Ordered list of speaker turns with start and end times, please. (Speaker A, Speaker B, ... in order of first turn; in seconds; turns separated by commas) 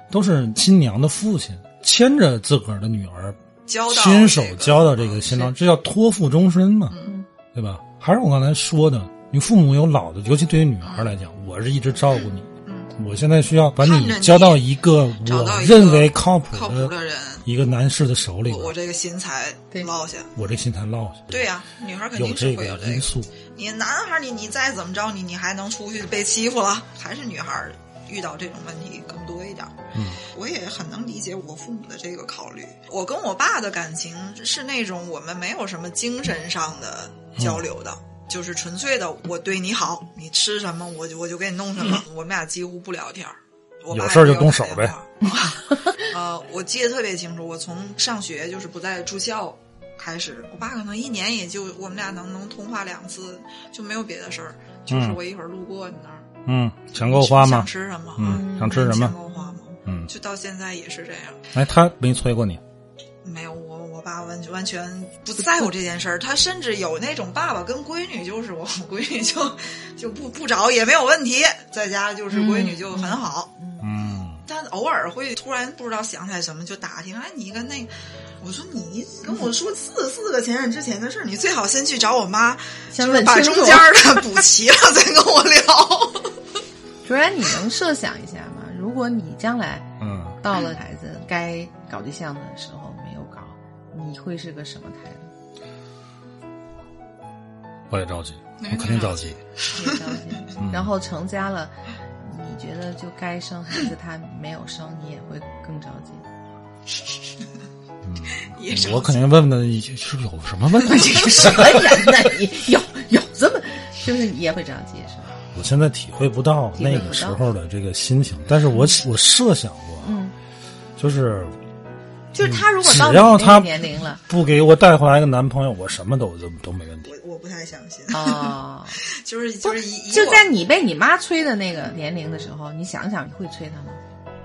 Speaker A: 0.1-7.0, Speaker B: 3.7-5.5, Speaker A: 7.5-16.9, Speaker B: 10.8-11.1, Speaker B: 12.7-12.9, Speaker B: 13.8-14.7, Speaker B: 15.2-17.5, Speaker A: 17.4-18.7, Speaker B: 18.5-20.3, Speaker A: 20.4-21.4, Speaker B: 21.3-29.8, Speaker A: 22.1-23.3, Speaker A: 29.9-30.2, Speaker B: 30.3-56.3, Speaker A: 37.4-37.6, Speaker A: 43.9-44.9, Speaker A: 54.9-55.2, Speaker A: 56.5-59.1, Speaker B: 56.9-61.4, Speaker C: 58.2-59.0, Speaker A: 61.5-62.6, Speaker B: 63.2-73.5, Speaker C: 72.3-73.8, Speaker A: 73.8-74.4, Speaker B: 74.5-77.9, Speaker B: 78.4-86.3, Speaker C: 82.9-84.3, Speaker C: 87.0-89.9, Speaker A: 90.0-90.4, Speaker C: 90.4-95.3, Speaker A: 97.9-99.4, Speaker B: 98.6-100.3, Speaker C: 99.7-106.2, Speaker A: 100.6-100.9, Speaker A: 108.0-112.1, Speaker B: 108.3-109.2, Speaker C: 110.8-115.4, Speaker A: 115.5-120.2, Speaker C: 116.8-117.4, Speaker C: 120.0-120.3, Speaker A: 121.0-121.5, Speaker C: 122.3-124.2, Speaker A: 122.4-127.1, Speaker B: 127.0-130.4, Speaker C: 128.1-129.0, Speaker C: 129.6-134.0